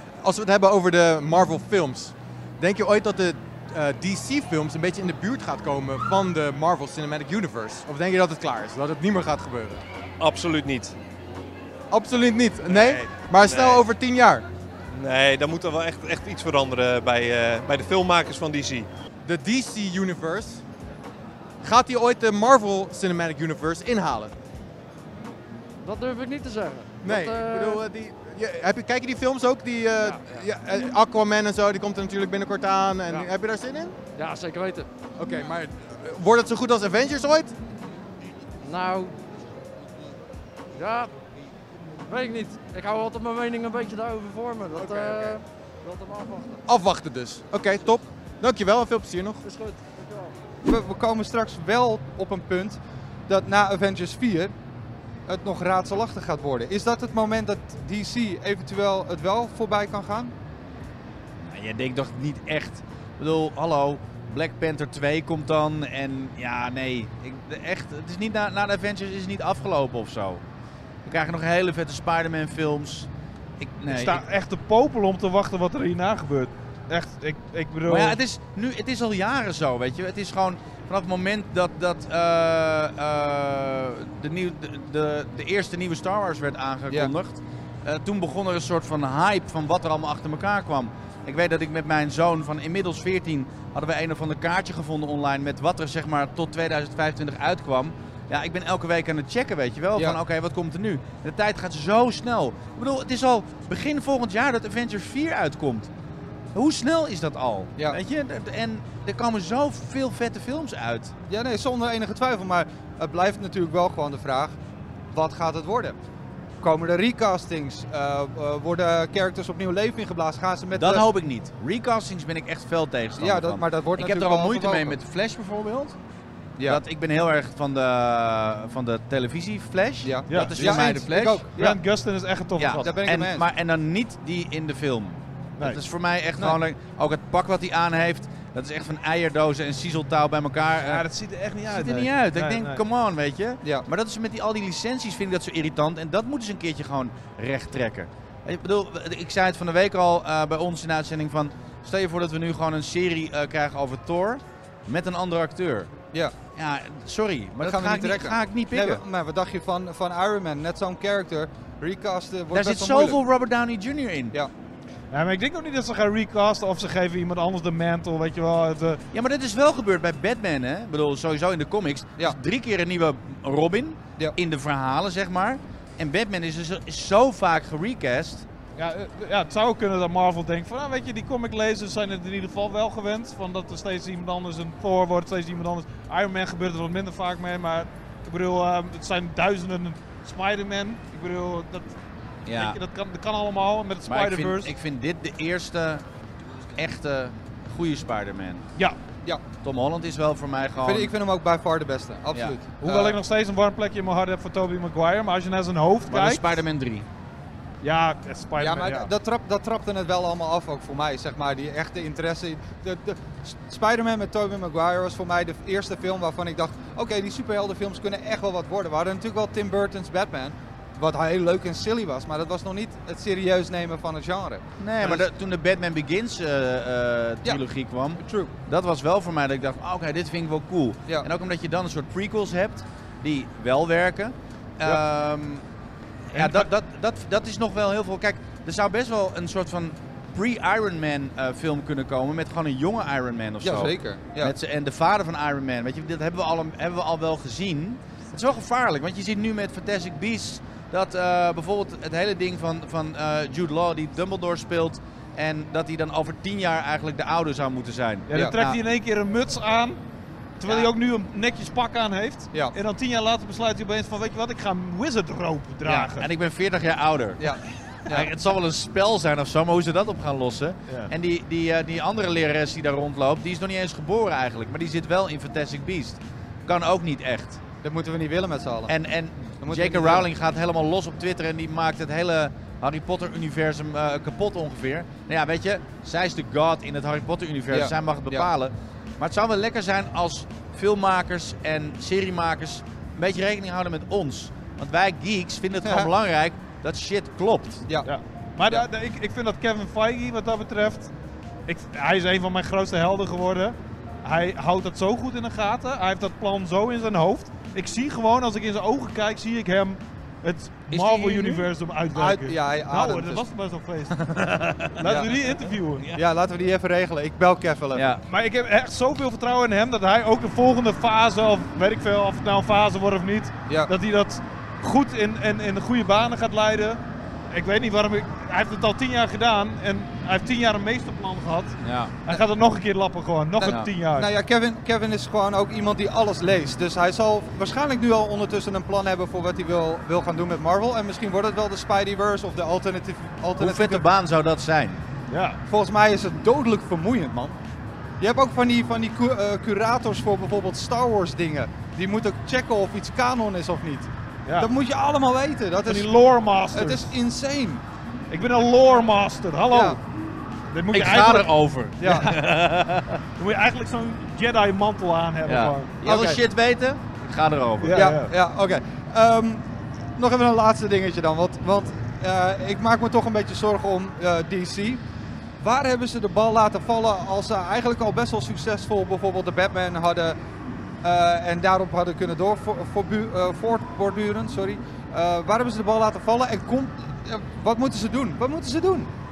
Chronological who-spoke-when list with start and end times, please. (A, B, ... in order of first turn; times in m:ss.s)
0:00.2-0:09.8 A
0:10.2-0:10.9 B
0:11.9-0:14.4 A
0:12.6-0:13.8 B
0:14.9-0:18.9 B
0:19.2-0:20.6 A
0:21.6-0:24.3 A
0:25.8-0:27.8 C
0:27.0-0:34.0 A
0:34.2-0:34.9 C
0:35.2-0:37.6 A
0:38.6-0:39.2 C
0:40.7-0:41.1 C
0:42.1-0:46.6 C
0:44.7-0:45.4 A
0:46.6-0:49.4 A
0:49.4-0:50.3 C
0:50.6-0:54.5 D
0:55.3-1:00.3 D
1:01.4-1:10.4 E
1:11.0-1:14.2 E
1:13.9-1:18.2 F
1:17.9-1:45.9 E
1:46.5-1:51.1 E
1:51.3-1:54.6 D
1:55.1-1:55.9 D
1:56.6-2:01.0 D
2:00.8-2:06.0 E
2:03.2-2:05.0 D
2:06.6-2:11.4 E
2:10.0-2:11.8 D
2:10.3-2:11.0 F
2:11.5-2:12.9 F
2:12.6-2:21.0 E
2:12.8-2:13.4 D
2:20.8-2:22.8 F
2:21.7-2:35.9 E
2:36.5-2:39.0 E
2:37.6-2:43.2 D
2:42.5-2:44.4 E
2:45.1-2:49.0 F
2:49.1-2:58.5 E
2:58.8-3:11.9 F
3:12.4-3:12.8 E
3:12.5-3:14.7 F
3:14.1-3:16.0 E
3:16.7-3:18.6 E
3:19.6-3:21.1 E
3:20.8-3:23.2 D
3:22.8-3:26.5 F
3:26.1-3:27.1 E
3:27.8-3:29.1 F
3:28.6-3:45.2 D
3:44.8-3:55.6 E
3:48.2-3:48.5 D
3:56.3-4:18.3 E
3:56.3-3:56.6 F
4:03.6-4:04.5 D
4:18.3-4:20.0 F
4:18.3-4:18.7 D
4:20.6-4:26.3 F
4:26.2-4:27.4 E
4:27.4-4:28.3 D
4:28.1-4:37.6 E
4:37.8-4:38.9 D
4:38.9-4:57.8 E
4:39.6-4:40.3 D
4:47.7-4:48.5 D
4:55.8-4:56.1 D
4:58.0-5:01.1 F
5:01.7-5:14.2 F
5:10.9-5:11.7 E
5:12.1-5:13.4 D
5:14.2-5:15.4 E
5:15.0-5:16.0 F
5:16.1-5:18.1 D
5:17.9-5:18.2 E
5:18.3-5:27.0 F
5:27.5-5:34.3 F
5:31.8-5:32.1 E
5:33.6-5:44.1 D
5:33.6-5:33.9 E
5:43.6-5:45.0 E
5:45.3-5:45.6 F
5:45.7-5:47.6 D
5:48.2-5:56.2 D
5:55.8-5:57.1 F
5:56.7-5:57.8 D
5:58.3-6:00.0 F
5:59.7-6:00.0 D
6:00.7-6:02.4 F
6:00.9-6:03.2 E
6:02.0-6:02.3 D
6:03.4-6:06.2 F
6:05.4-6:08.0 E
6:06.0-6:06.4 D
6:07.8-6:08.3 F
6:07.9-6:09.6 D
6:10.2-6:15.0 D
6:15.6-6:20.4 D
6:21.0-6:29.1 D